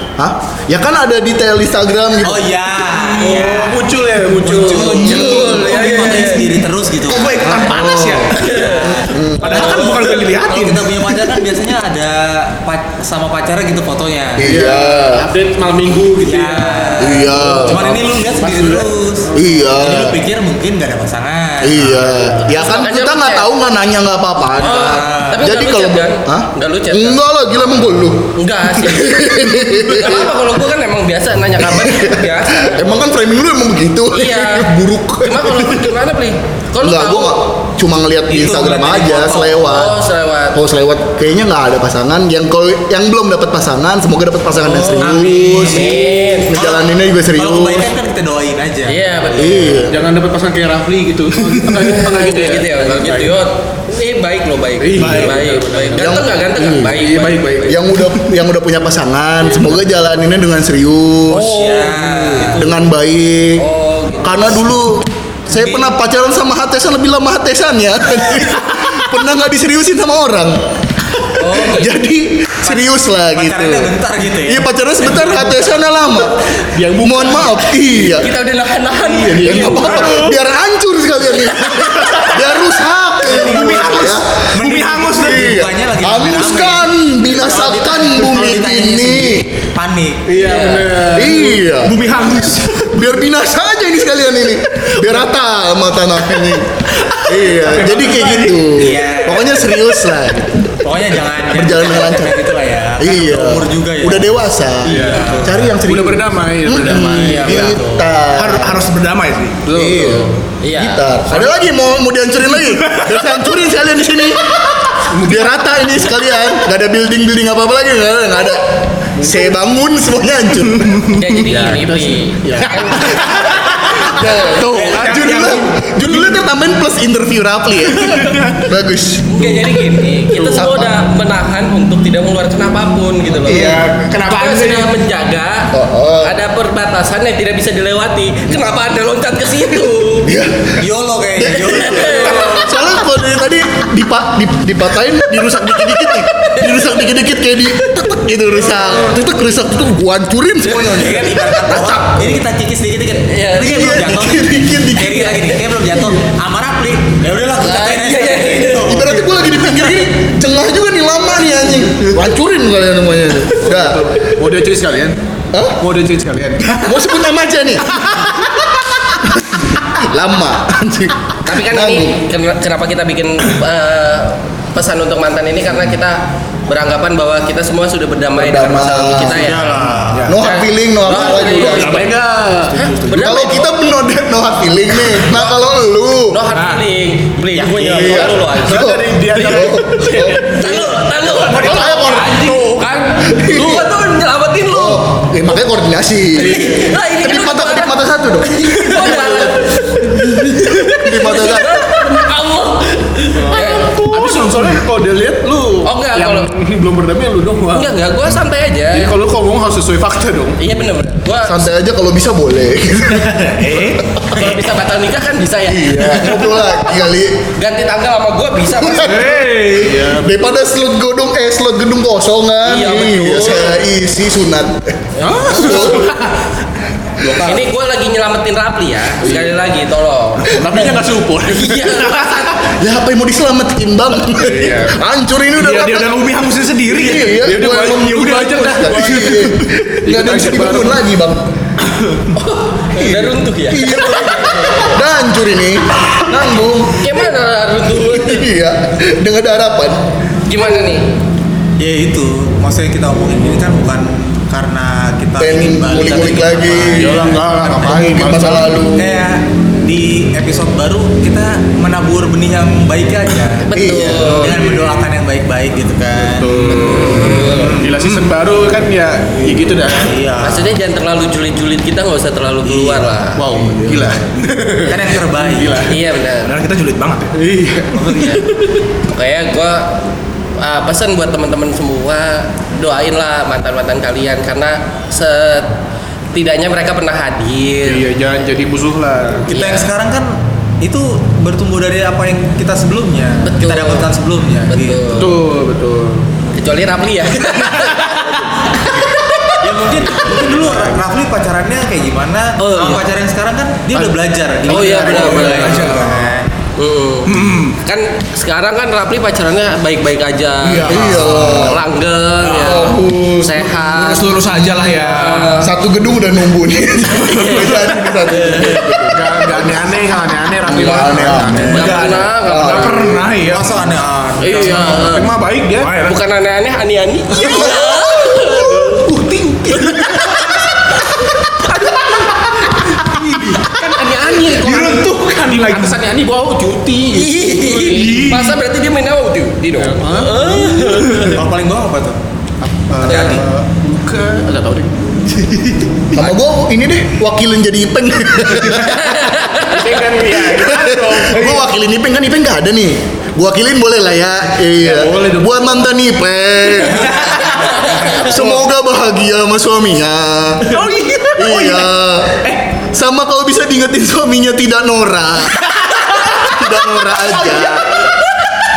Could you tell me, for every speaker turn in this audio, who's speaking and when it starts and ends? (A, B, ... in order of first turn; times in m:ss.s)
0:00.2-0:02.5 A
0:02.2-0:07.7 B
0:03.0-0:06.2 C
0:04.4-0:06.6 D
0:04.7-0:05.7 A
0:07.0-0:08.6 E
0:07.7-0:09.8 A
0:08.3-0:09.0 D
0:08.5-0:14.5 B
0:09.4-0:11.2 E
0:14.4-0:15.3 A
0:14.4-0:19.7 C
0:16.2-0:22.2 B
0:17.0-0:17.9 A
0:19.3-0:20.2 A
0:21.6-0:30.4 A
0:22.5-0:23.5 D
0:24.6-0:25.4 B
0:24.6-0:27.2 D
0:28.4-0:33.0 D
0:31.6-0:36.0 A
0:34.1-0:34.7 D
0:35.2-0:37.4 D
0:36.8-0:40.0 A
0:38.3-0:39.6 B
0:39.5-0:40.6 D
0:40.5-0:47.9 A
0:44.6-0:46.5 D
0:45.0-0:49.0 B
0:48.9-0:49.9 D
0:49.3-0:50.0 A
0:49.9-0:53.4 C
0:51.8-0:57.8 D
0:54.8-0:56.2 C
0:55.0-0:55.4 E
0:55.9-0:57.0 A
0:56.9-0:57.8 C
0:57.6-1:01.6 A
0:59.4-0:59.8 C
1:01.3-1:02.6 B
1:01.5-1:02.7 C
1:02.5-1:03.6 A
1:03.6-1:04.6 D
1:04.2-1:16.4 A
1:05.5-1:05.9 B
1:11.3-1:11.9 D
1:12.6-1:15.8 B
1:16.7-1:18.3 C
1:17.0-1:18.3 A
1:18.2-1:20.2 D
1:19.0-1:20.4 C
1:19.3-1:24.5 A
1:21.8-1:22.2 E
1:23.2-1:30.2 B
1:23.4-1:25.4 E
1:25.2-1:29.5 A
1:30.2-1:31.8 C
1:30.3-1:31.0 D
1:31.1-1:32.1 A
1:31.8-1:33.0 E
1:32.8-1:40.9 A
1:37.0-1:38.6 E
1:38.0-1:38.5 C
1:38.7-1:39.8 B
1:40.8-1:45.8 B
1:41.5-1:42.4 A
1:43.0-1:48.8 A
1:44.8-1:47.8 C
1:46.8-1:48.1 B
1:48.3-1:49.7 E
1:49.6-1:50.3 C
1:49.7-2:01.3 A
1:50.6-1:51.2 D
1:52.6-1:53.2 E
1:55.1-1:55.6 C
1:59.2-1:59.4 C
2:01.1-2:03.5 D
2:01.3-2:03.2 C
2:03.0-2:03.5 E
2:03.8-2:09.6 A
2:04.2-2:06.4 E
2:07.9-2:08.7 E
2:09.3-2:20.3 D
2:10.5-2:10.9 A
2:13.4-2:15.0 E
2:15.7-2:16.4 A
2:20.2-2:20.8 A
2:20.8-2:22.7 B
2:21.4-2:31.8 A
2:21.6-2:22.6 D
2:30.7-2:32.4 D
2:30.8-2:39.3 B
2:33.3-2:33.9 D
2:33.6-2:35.6 A
2:37.6-2:39.0 D
2:38.8-2:44.3 A
2:43.6-2:45.2 C
2:45.5-2:45.8 A
2:45.8-2:46.8 C
2:46.7-2:52.2 A
2:51.4-2:59.8 D
2:58.3-2:59.4 A
2:59.2-3:00.4 B
2:59.8-3:00.4 E
3:00.2-3:02.0 A
3:00.4-3:02.0 D
3:01.1-3:02.8 C
3:01.4-3:03.4 E
3:02.7-3:03.7 D
3:03.2-3:06.4 A
3:06.3-3:15.1 D
3:06.5-3:06.8 E
3:07.6-3:12.7 C
3:07.8-3:10.6 A
3:11.4-3:12.9 E
3:11.6-3:12.5 A
3:13.2-3:13.9 A
3:14.7-3:19.5 A
3:16.3-3:24.1 D
3:16.4-3:16.8 C
3:19.0-3:19.7 C
3:20.3-3:21.8 A
3:23.3-3:28.0 C
3:24.1-3:24.8 E
3:25.8-3:26.5 D
3:27.7-3:29.1 D
3:28.9-3:30.7 C
3:30.6-3:31.7 D
3:31.4-3:34.2 A
3:33.4-3:34.1 E
3:34.3-3:36.5 D
3:35.7-3:37.5 A
3:37.5-3:39.4 D
3:38.7-3:46.1 A
3:38.9-3:40.6 C
3:39.4-3:39.8 E
3:42.6-3:43.8 D
3:45.2-3:46.1 C
3:45.2-3:45.8 D
3:45.8-3:46.3 E
3:47.2-3:47.6 C
3:47.4-3:50.6 D
3:49.2-3:49.5 C
3:50.4-3:52.5 E
3:50.6-3:51.1 A
3:51.4-3:52.7 D
3:52.6-3:56.2 A
3:54.3-3:55.0 C
3:55.6-3:59.8 E
3:56.8-4:01.5 A
3:57.6-3:59.5 C
4:00.0-4:01.0 C
4:02.3-4:05.0 D
4:03.0-4:07.2 A
4:07.0-4:08.5 D
4:08.0-4:10.0 A
4:10.5-4:11.1 D
4:11.8-4:17.4 B
4:15.4-4:19.2 A
4:16.9-4:18.8 C
4:18.9-4:23.7 B
4:23.7-4:24.6 D
4:23.7-4:25.0 A
4:24.2-4:27.4 B
4:26.1-4:30.1 C
4:26.6-4:28.3 E
4:26.9-4:27.7 D
4:30.0-4:30.7 B
4:30.4-4:33.4 D
4:32.6-4:33.0 B
4:33.4-4:36.0 C
4:33.7-4:34.4 E
4:34.8-4:35.9 B
4:35.8-4:36.5 D
4:36.4-4:37.4 E
4:37.4-4:38.6 C
4:38.0-4:38.4 D
4:39.0-4:40.0 D
4:40.6-4:45.7 D
4:46.3-4:48.0 D
4:47.8-4:49.5 C
4:49.4-4:55.3 B
4:49.5-4:49.9 D
4:53.4-4:54.1 D
4:54.7-4:55.3 D
4:55.2-4:56.3 C
4:56.5-4:59.6 D
4:58.1-4:58.7 C
4:59.6-5:06.5 B
5:00.2-5:01.0 C
5:02.6-5:03.0 D
5:04.6-5:05.9 C
5:04.7-5:05.9 D
5:05.0-5:06.4 E
5:06.8-5:15.7 D
5:07.2-5:07.8 E
5:10.6-5:11.6 E
5:10.7-5:11.8 A
5:12.4-5:13.0 E
5:12.5-5:13.7 A
5:13.8-5:15.7 E
5:15.6-5:19.7 A
5:17.1-5:18.2 E
5:17.3-5:18.9 D
5:19.1-5:22.2 C
5:20.7-5:23.2 A
5:20.7-5:23.1 D
5:21.5-5:23.8 E
5:23.5-5:25.0 B
5:24.4-5:25.3 D
5:24.4-5:25.9 C
5:25.8-5:26.2 E
5:26.0-5:29.1 D
5:27.4-5:27.9 C
5:29.0-5:30.4 C
5:29.8-5:30.6 D
5:31.6-5:38.1 C
5:34.6-5:36.0 E
5:37.1-5:41.4 D
5:37.8-5:38.6 E
5:39.8-5:41.4 C
5:41.2-5:42.2 B
5:42.6-5:46.0 C
5:43.0-5:43.4 B
5:43.0-5:43.4 D
5:46.1-5:49.3 A
5:49.0-5:49.9 D
5:49.5-5:51.6 C
5:50.4-6:00.8 A
5:54.8-5:55.6 E
5:57.4-5:58.2 D
5:58.3-5:58.5 E
6:00.6-6:02.6 E
6:01.4-6:08.1 A
6:05.6-6:06.3 E
6:07.3-6:08.1 E